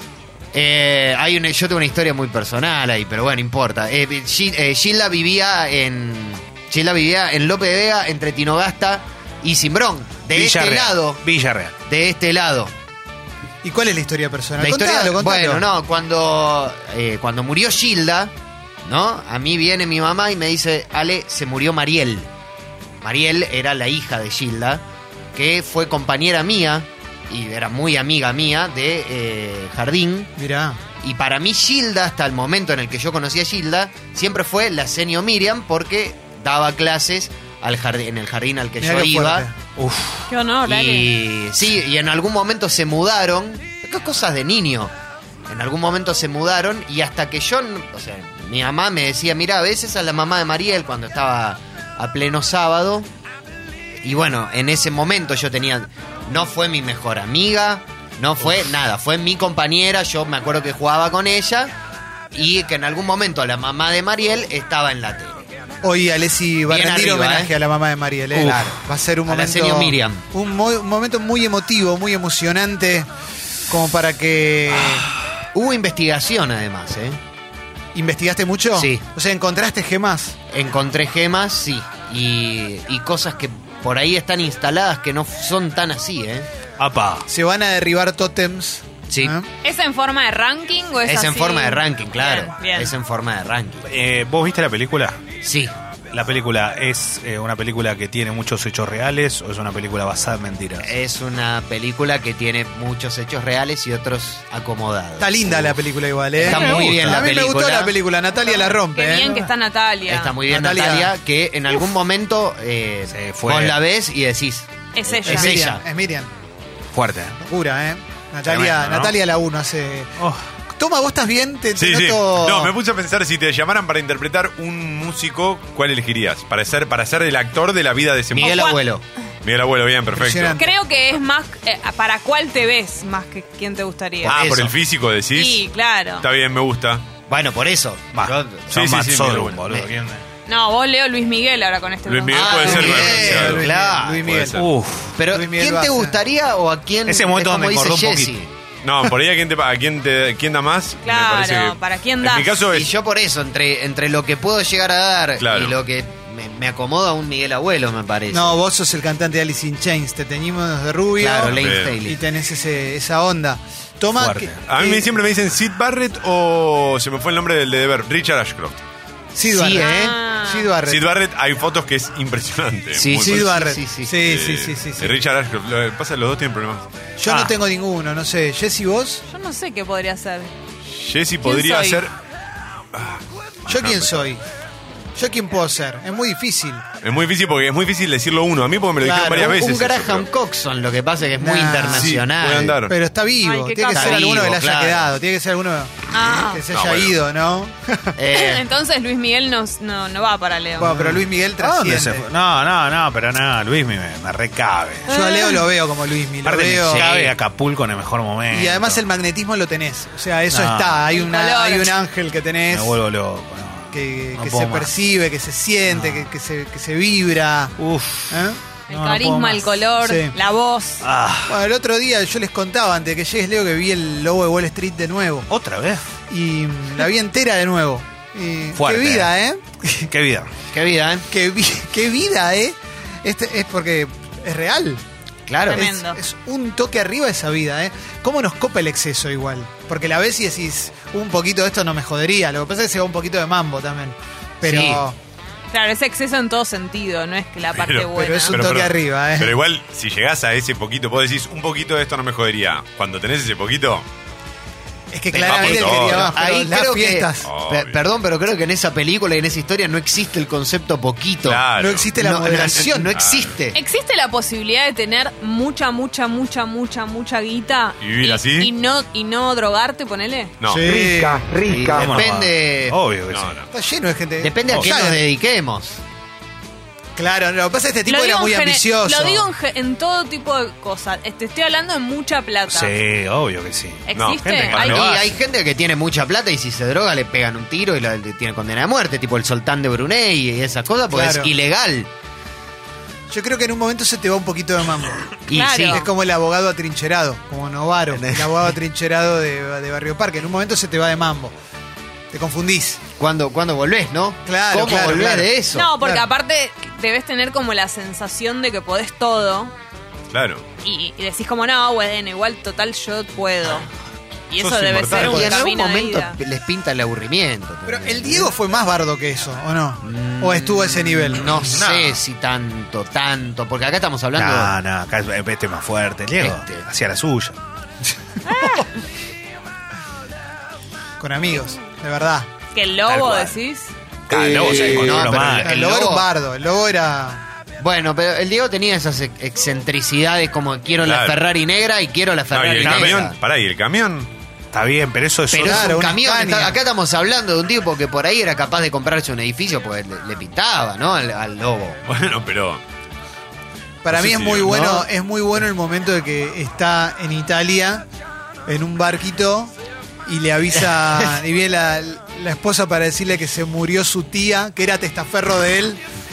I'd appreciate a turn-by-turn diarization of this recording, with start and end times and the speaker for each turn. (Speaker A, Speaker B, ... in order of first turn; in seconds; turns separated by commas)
Speaker A: 0.5-11.2, Speaker B: 10.3-11.7, Speaker A: 11.9-12.7, Speaker C: 13.6-15.6, Speaker A: 14.6-18.3, Speaker A: 18.8-22.3, Speaker A: 23.0-24.8, Speaker A: 25.4-30.3, Speaker C: 30.4-30.8, Speaker A: 31.0-39.5, Speaker C: 38.8-39.5, Speaker B: 39.8-40.3, Speaker D: 40.3-41.2, Speaker A: 40.6-44.9, Speaker A: 45.5-53.1, Speaker A: 54.0-61.7, Speaker A: 62.3-65.5, Speaker C: 65.8-73.1, Speaker A: 66.7-67.5, Speaker B: 68.3-68.8, Speaker A: 69.3-70.2, Speaker C: 73.7-75.1, Speaker A: 75.5-77.2, Speaker C: 78.0-80.4, Speaker A: 78.7-79.0, Speaker A: 80.5-86.5, Speaker B: 86.8-87.3, Speaker C: 87.3-89.5, Speaker A: 89.1-89.4, Speaker D: 89.6-92.9, Speaker A: 91.0-93.9, Speaker B: 93.9-95.2, Speaker A: 95.4-95.7, Speaker B: 96.1-100.9, Speaker A: 100.8-105.8, Speaker C: 105.2-109.5, Speaker A: 106.4-108.0, Speaker B: 106.4-107.3, Speaker D: 108.4-110.4, Speaker A: 110.0-115.8, Speaker C: 110.5-111.1, Speaker B: 113.1-113.8, Speaker D: 115.0-115.7, Speaker C: 115.2-116.3, Speaker B: 116.9-117.4, Speaker C: 117.4-120.1, Speaker B: 118.5-119.2, Speaker B: 120.2-120.4, Speaker C: 120.7-122.7, Speaker E: 121.7-128.8, Speaker A: 128.3-129.0, Speaker D: 128.4-128.8, Speaker E: 129.4-130.6, Speaker C: 130.1-130.7, Speaker D: 130.6-134.4, Speaker A: 134.2-134.8, Speaker E: 134.2-135.7, Speaker D: 135.3-136.3, Speaker E: 136.2-137.1, Speaker A: 137.3-138.9, Speaker B: 138.1-140.2, Speaker E: 138.7-139.7, Speaker D: 140.5-143.1, Speaker E: 142.1-144.7, Speaker A: 142.3-144.5, Speaker C: 142.6-144.6, Speaker B: 144.5-145.2, Speaker A: 145.2-148.5, Speaker C: 145.3-146.2, Speaker B: 147.1-148.3, Speaker E: 148.8-152.9, Speaker D: 151.1-152.6, Speaker A: 152.7-158.6, Speaker E: 155.4-155.8, Speaker C: 158.3-165.2, Speaker A: 161.2-162.2, Speaker E: 161.6-162.0, Speaker B: 164.2-164.6, Speaker E: 164.7-168.8, Speaker C: 169.3-171.1, Speaker A: 169.4-170.2, Speaker D: 169.7-170.7, Speaker E: 170.8-173.5, Speaker A: 172.9-174.4, Speaker C: 173.2-175.3, Speaker E: 174.2-176.9, Speaker C: 177.2-179.2, Speaker B: 177.3-177.6, Speaker D: 179.3-180.5, Speaker E: 180.9-182.1, Speaker D: 181.4-182.0, Speaker E: 182.9-184.3, Speaker C: 183.7-184.4, Speaker C: 185.2-186.9, Speaker E: 187.0-190.3, Speaker C: 189.0-189.6, Speaker A: 189.3-192.8, Speaker C: 191.4-192.2, Speaker E: 191.9-192.9, Speaker C: 192.9-198.1, Speaker D: 193.4-194.3, Speaker A: 193.9-195.1, Speaker D: 196.1-196.7, Speaker E: 196.7-197.2, Speaker A: 198.2-198.7, Speaker D: 198.3-201.1, Speaker C: 200.8-202.3, Speaker B: 200.9-205.1, Speaker D: 205.1-205.7, Speaker C: 205.1-207.1, Speaker B: 206.4-209.0, Speaker A: 206.8-207.3, Speaker C: 208.5-213.0, Speaker B: 210.5-211.1, Speaker D: 211.1-212.0, Speaker B: 212.7-214.9, Speaker C: 213.9-217.8, Speaker B: 215.9-216.3, Speaker B: 217.8-219.6, Speaker C: 218.3-218.6, Speaker D: 218.9-221.0, Speaker C: 219.3-220.3, Speaker B: 221.0-221.6, Speaker C: 221.5-225.5, Speaker B: 225.5-226.0, Speaker C: 226.3-230.1, Speaker B: 228.7-229.3, Speaker B: 230.1-230.5, Speaker A: 230.7-231.3, Speaker C: 231.3-235.0, Speaker A: 235.5-235.9, Speaker D: 235.7-236.2, Speaker C: 235.7-245.2, Speaker A: 244.6-245.1, Speaker D: 245.7-248.6, Speaker E: 247.7-254.1, Speaker C: 248.1-249.6, Speaker C: 255.1-257.5, Speaker A: 255.3-261.6, Speaker E: 255.4-256.4, Speaker E: 257.4-258.0, Speaker E: 261.4-262.6, Speaker C: 261.8-263.1, Speaker A: 262.2-263.8, Speaker E: 263.1-263.5, Speaker D: 263.7-270.6, Speaker E: 268.0-268.7, Speaker E: 270.6-271.0, Speaker C: 270.7-271.5, Speaker A: 271.6-273.0, Speaker B: 271.9-273.6, Speaker E: 273.3-273.7, Speaker C: 273.7-275.2, Speaker A: 274.4-276.0, Speaker C: 277.2-279.5, Speaker D: 278.1-282.9, Speaker B: 282.7-285.4, Speaker D: 284.1-285.1, Speaker E: 284.1-285.2, Speaker A: 284.8-292.1, Speaker C: 291.1-291.5, Speaker C: 293.3-295.3, Speaker A: 295.5-296.1, Speaker D: 295.5-296.1, Speaker C: 295.9-301.5, Speaker A: 298.1-298.7, Speaker C: 302.3-303.0, Speaker A: 303.2-306.0, Speaker C: 304.5-306.3, Speaker D: 305.7-309.7, Speaker E: 310.3-310.6, Speaker D: 310.8-313.9, Speaker D: 314.5-316.4, Speaker B: 314.6-315.6, Speaker A: 315.1-318.5, Speaker C: 317.9-321.6, Speaker A: 320.0-324.8, Speaker B: 321.6-322.2, Speaker B: 324.4-327.6, Speaker A: 326.4-326.9, Speaker D: 328.4-328.9, Speaker C: 331.2-332.5, Speaker D: 332.7-333.9, Speaker B: 333.0-333.6, Speaker B: 334.3-335.8, Speaker A: 334.6-336.3, Speaker C: 335.6-337.4, Speaker A: 337.8-343.4, Speaker E: 341.0-341.4, Speaker E: 342.5-344.3, Speaker B: 342.7-343.2, Speaker B: 344.7-346.1, Speaker A: 345.5-352.0, Speaker C: 345.6-346.8, Speaker E: 352.1-352.8, Speaker C: 354.0-358.1, Speaker E: 354.1-354.9, Speaker B: 354.7-355.0, Speaker C: 358.7-359.7, Speaker C: 360.3-366.0, Speaker A: 360.8-361.4